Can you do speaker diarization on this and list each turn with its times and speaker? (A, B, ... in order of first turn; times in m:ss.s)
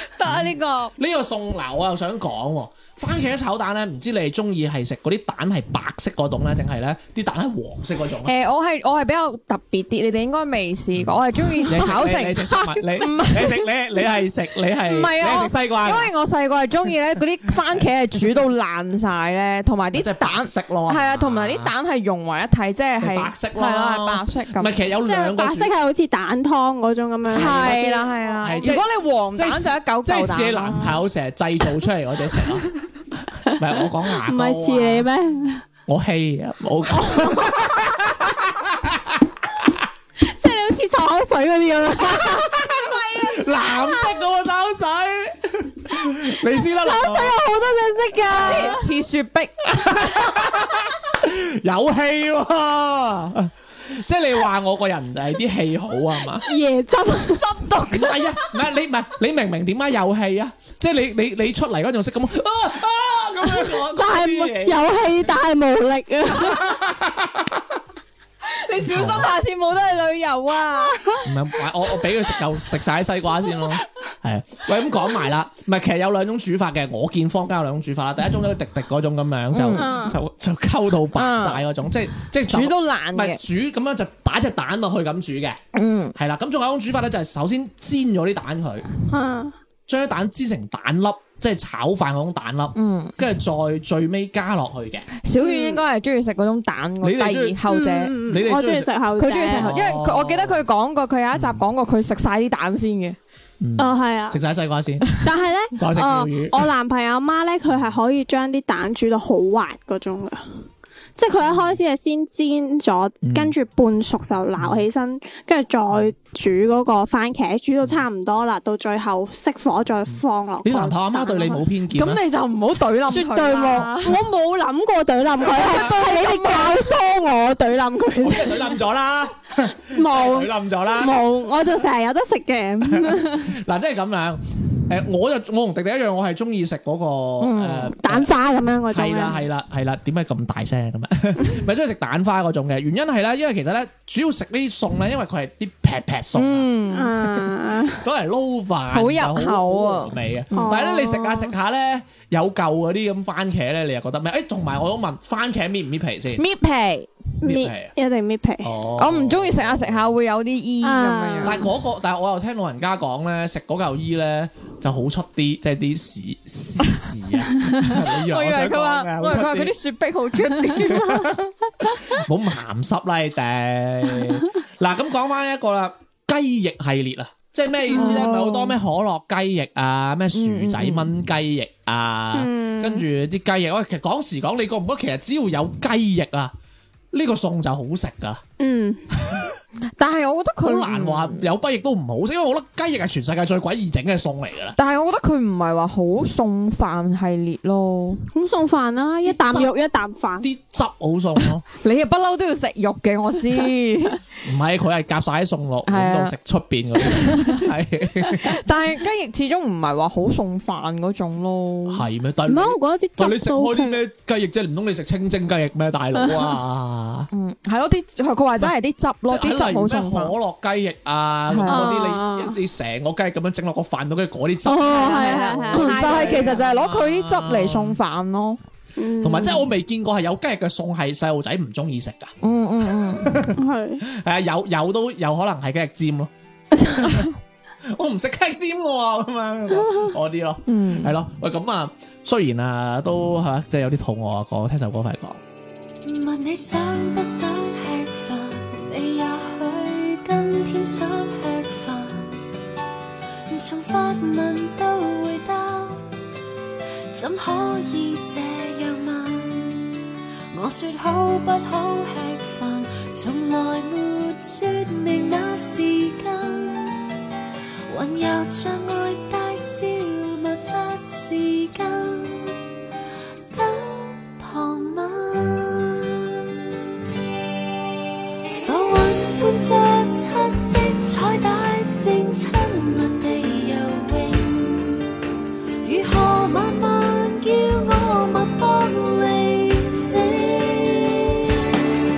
0:00.2-0:00.9 A
0:00.2-0:08.3 B
0:08.2-0:13.7 A
0:10.9-0:16.1 B
0:14.8-0:24.7 A
0:19.9-0:21.7 B
0:23.0-0:25.7 B
0:25.0-0:28.7 C
0:27.3-0:27.8 B
0:27.3-0:30.8 A
0:28.4-0:35.1 B
0:34.2-0:35.6 C
0:35.9-0:39.2 B
0:37.0-0:37.8 C
0:40.2-0:44.2 C
0:42.1-0:47.4 B
0:46.6-0:48.8 C
0:48.4-0:49.9 A
0:49.7-0:56.5 B
0:56.4-0:57.7 C
0:57.3-0:58.5 A
0:57.9-1:04.8 B
1:03.8-1:06.7 C
1:06.4-1:07.8 B
1:08.5-1:11.0 A
1:08.8-1:09.3 B
1:10.8-1:11.2 C
1:11.2-1:25.6 B
1:19.5-1:19.9 A
1:19.7-1:20.2 C
1:21.1-1:21.6 A
1:22.4-1:23.4 A
1:25.7-1:26.1 A
1:26.2-1:28.9 B
1:29.1-1:29.5 C
1:29.9-1:35.1 B
1:32.7-1:33.2 A
1:35.2-1:38.2 A
1:35.4-1:35.8 C
1:37.0-1:37.6 B
1:37.7-1:39.7 C
1:38.2-1:38.9 B
1:39.2-1:43.2 A
1:39.5-1:40.6 B
1:41.3-1:41.6 B
1:43.6-1:45.0 B
1:43.8-1:44.4 C
1:45.2-1:50.4 C
1:45.8-1:46.6 B
1:51.2-2:01.6 C
1:51.4-1:51.8 B
1:53.2-1:53.5 B
1:54.6-1:54.8 B
2:00.1-2:02.2 B
2:01.9-2:04.2 A
2:03.1-2:08.8 C
2:05.5-2:05.9 B
2:06.0-2:06.8 A
2:08.2-2:11.2 B
2:09.9-2:13.5 C
2:12.8-2:18.3 B
2:17.4-2:17.9 A
2:18.0-2:19.4 C
2:18.9-2:26.7 B
2:26.3-2:27.2 A
2:26.9-2:28.1 C
2:27.2-2:36.4 B
2:28.9-2:30.8 A
2:30.5-2:31.5 C
2:36.4-2:37.1 A
2:37.4-2:38.7 C
2:37.4-2:37.9 B
2:38.6-2:40.0 B
2:39.0-2:41.6 A
2:40.8-2:41.7 C
2:41.4-2:49.7 B
2:48.1-2:51.3 A
2:50.7-3:06.5 B
2:57.9-2:58.3 C
2:57.9-2:58.8 A
3:00.3-3:01.2 A
3:02.3-3:03.0 C
3:07.1-3:08.4 B
3:08.6-3:09.1 C
3:09.2-3:09.5 B
3:10.0-3:11.4 A
3:10.6-3:14.8 B
3:14.8-3:18.2 A
3:18.3-3:20.5 C
3:19.2-3:19.7 B
3:20.4-3:21.6 B
3:21.7-3:24.2 A
3:24.4-3:28.6 B
3:25.9-3:26.4 A
3:27.0-3:27.6 A
3:28.4-3:32.0 A
3:31.9-3:37.3 B
3:32.5-3:34.0 C
3:36.2-3:36.5 C
3:37.3-3:40.3 A
3:39.2-3:48.0 B
3:41.5-3:41.9 A
3:41.7-3:42.6 C
3:44.7-3:48.6 A
3:44.7-3:46.6 C
3:49.0-3:49.7 C
3:49.2-3:52.4 B
3:52.4-3:53.3 A
3:52.9-3:56.3 B
3:53.5-3:54.0 C
3:56.7-3:57.2 C
3:57.0-3:57.3 B
3:57.8-4:05.4 B
4:00.7-4:01.1 A
4:06.0-4:12.4 D
4:13.5-4:16.0 D
4:17.1-4:19.9 D
4:20.5-4:27.1 D
4:27.9-4:32.6 D
4:33.5-4:36.6 D
4:38.6-4:45.1 D
4:45.8-4:51.7 D